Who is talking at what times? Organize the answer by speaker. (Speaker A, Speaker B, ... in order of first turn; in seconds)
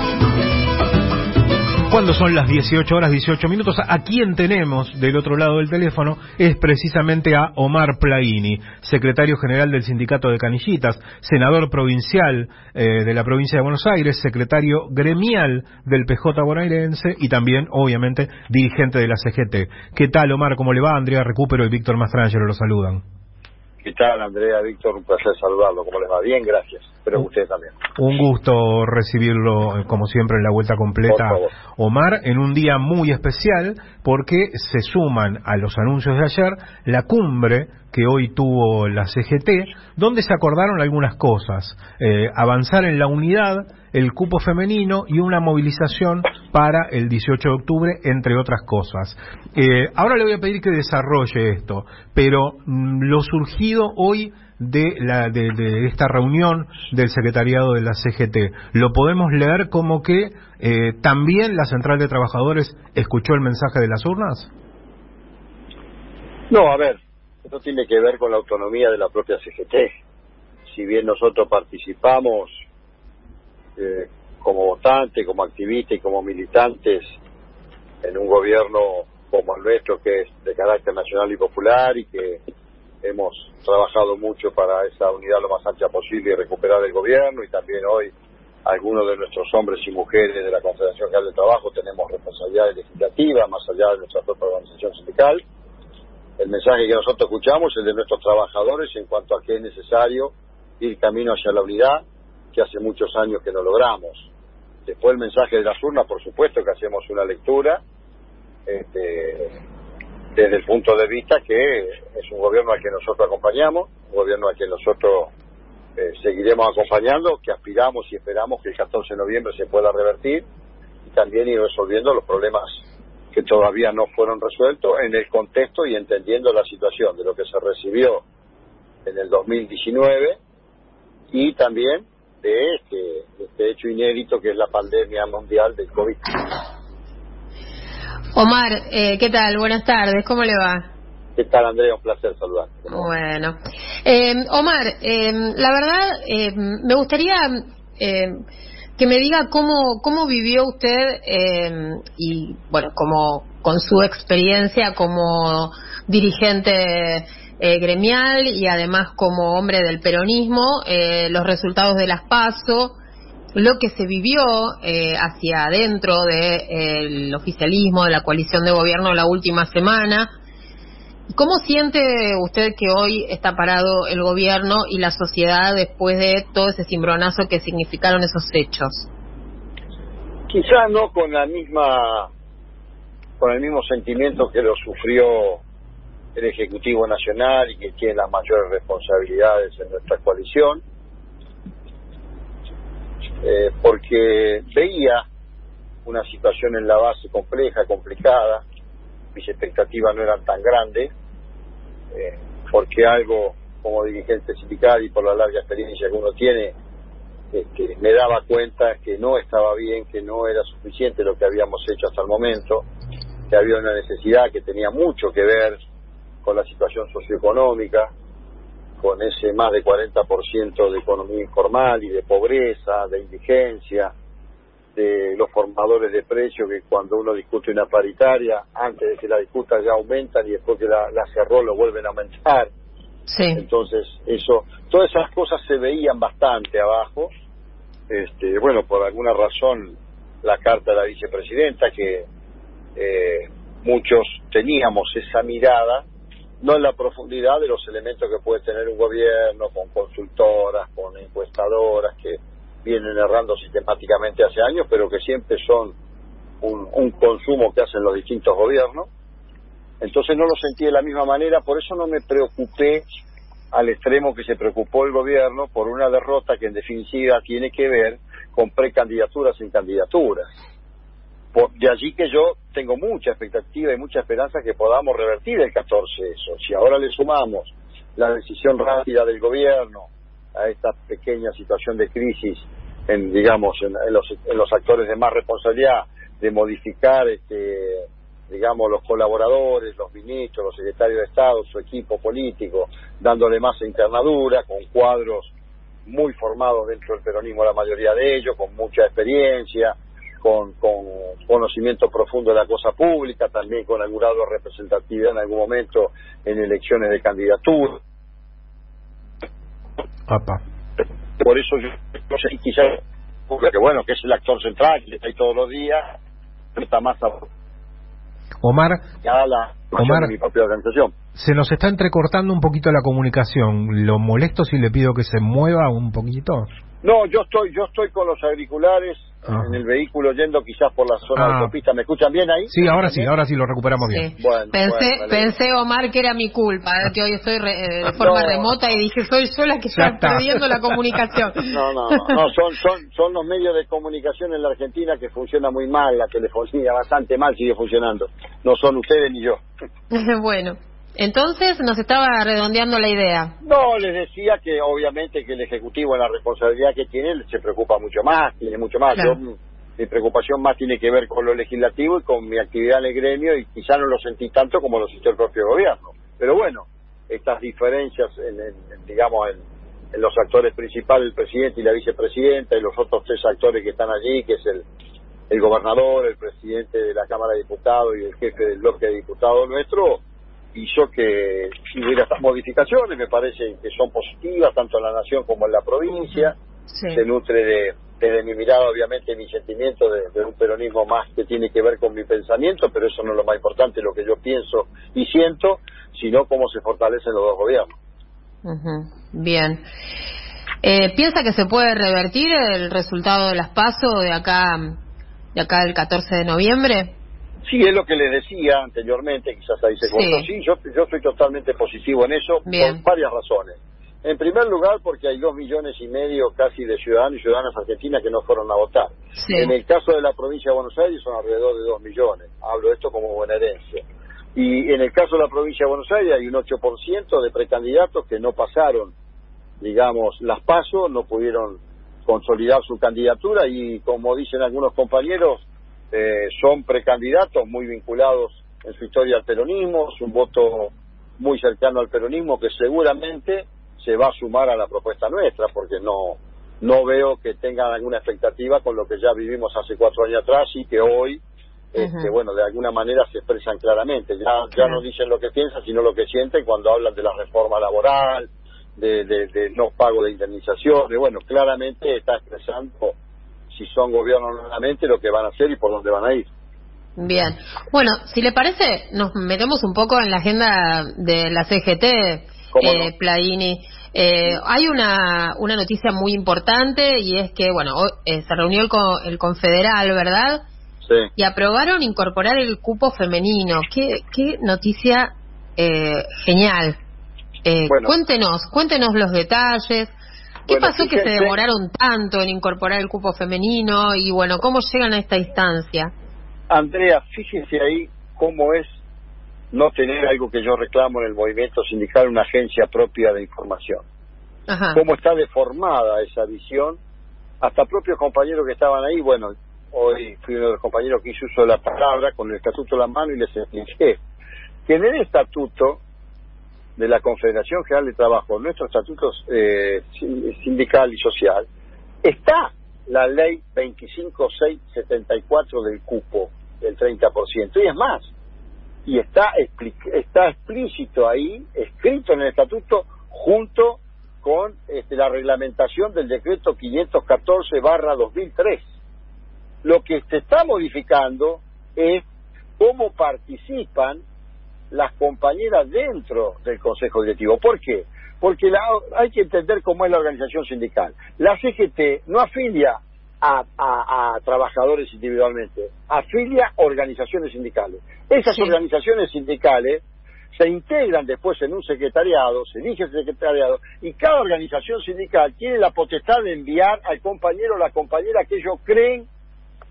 Speaker A: 1.9-23.0, 28.0-64.5, 310.3-310.6, 318.6-319.0, 320.0-320.3, 321.4-326.7, 329.5-329.7, 331.4-331.7, 332.7-334.3, 339.9-340.7
Speaker B: 23.8-27.7, 31.1-31.5, 66.5-69.9, 70.7-72.5, 73.8-77.1, 78.0-82.4, 83.0-88.1, 88.6-95.4, 96.4-102.0, 102.5-104.3, 104.8-107.8, 108.7-109.5, 110.3-115.3, 116.0-120.4, 121.0-122.8, 123.3-128.2, 129.1-130.4, 131.3-136.6, 141.4-143.1, 180.5-182.3, 183.4-185.6, 186.3-190.8, 193.4-195.2, 196.0-198.6, 199.3-201.1, 202.1-206.7, 207.5-212.8, 213.5-215.8, 216.4-218.1, 219.0-224.1, 224.9-232.7, 233.6-237.3, 238.1-242.2, 242.9-246.0, 246.6-255.9, 256.6-259.1, 260.0-263.1, 263.7-270.5, 271.5-295.5, 296.1-308.0, 311.4-316.1, 316.8-317.5, 319.2-321.1, 327.0-333.3, 334.4-335.5, 338.2-338.7, 341.7-349.6, 353.6-369.6, 370.1-374.8, 375.5-380.2, 380.7-386.6, 387.1-397.9, 407.6-424.0, 424.5-429.1, 429.8-451.4, 451.9-463.1, 463.7-466.4, 472.7-473.1, 490.7-491.6, 496.7-498.9, 499.7-504.0, 504.9-507.0, 507.6-514.2, 514.9-516.0, 517.0-521.6, 522.2-528.3, 529.0-538.8, 539.8-542.2, 542.8-544.2, 544.9-560.0, 560.5-569.3
Speaker C: 138.3-140.8, 142.9-148.3, 149.0-162.9, 163.5-170.3, 171.3-179.1, 233.3-233.6, 334.1-342.3, 350.1-353.5, 359.1-359.4, 386.3-387.2, 398.6-399.8, 400.8-405.0, 405.5-407.1, 410.0-410.5, 412.6-413.0, 419.4-419.7, 452.0-452.3, 454.8-455.0, 467.2-480.6, 481.4-487.0, 487.6-490.1, 490.7-496.1, 504.7-505.0, 558.5-558.8